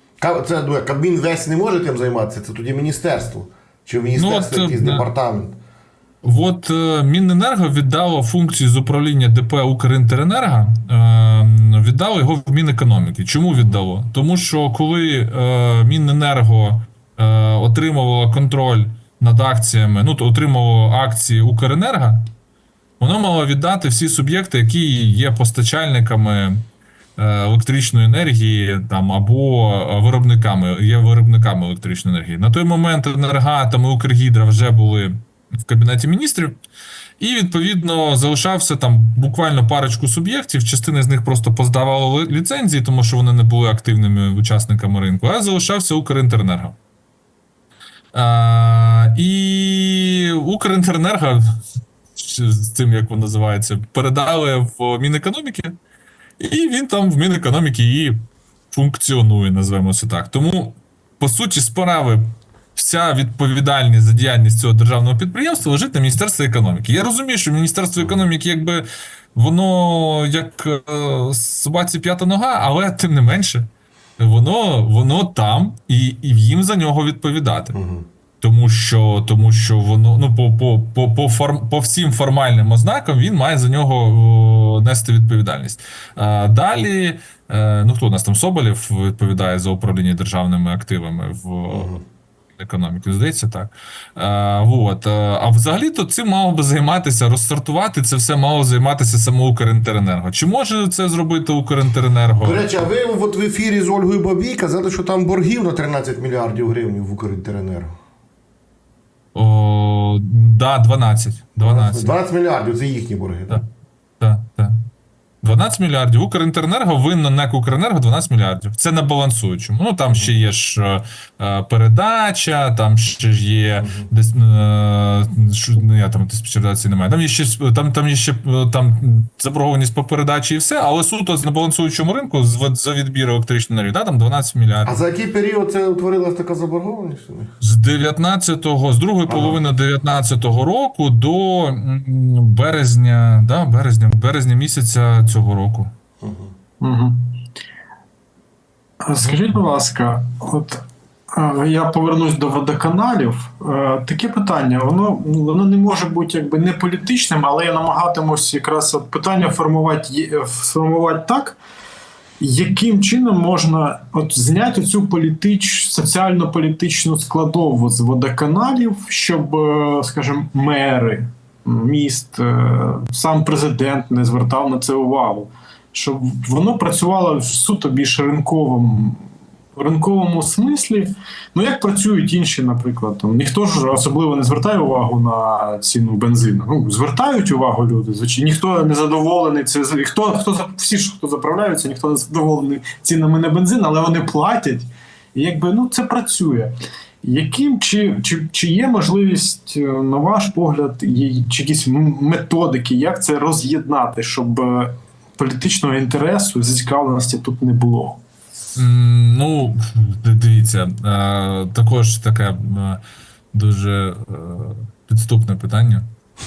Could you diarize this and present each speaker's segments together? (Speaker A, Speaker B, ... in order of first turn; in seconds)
Speaker A: 0.2-5.6, 68.0-68.3, 77.7-78.0, 91.7-92.0, 102.4-107.9, 111.6-113.6, 123.8-124.1, 134.8-137.5, 139.3-139.6, 146.2-146.5
Speaker B: 4.1-5.1, 6.2-22.2, 23.0-26.6, 27.2-36.6, 37.2-46.8, 48.1-51.4, 52.2-55.7, 56.4-58.2, 58.7-62.2, 62.7-77.8, 78.4-92.0, 92.6-102.9, 109.3-112.2, 114.2-114.7, 115.4-135.0, 137.6-145.9, 149.2-149.6, 208.8-213.0, 213.5-216.0
Speaker C: 146.8-147.3, 149.0-161.6, 162.4-179.2, 179.8-208.2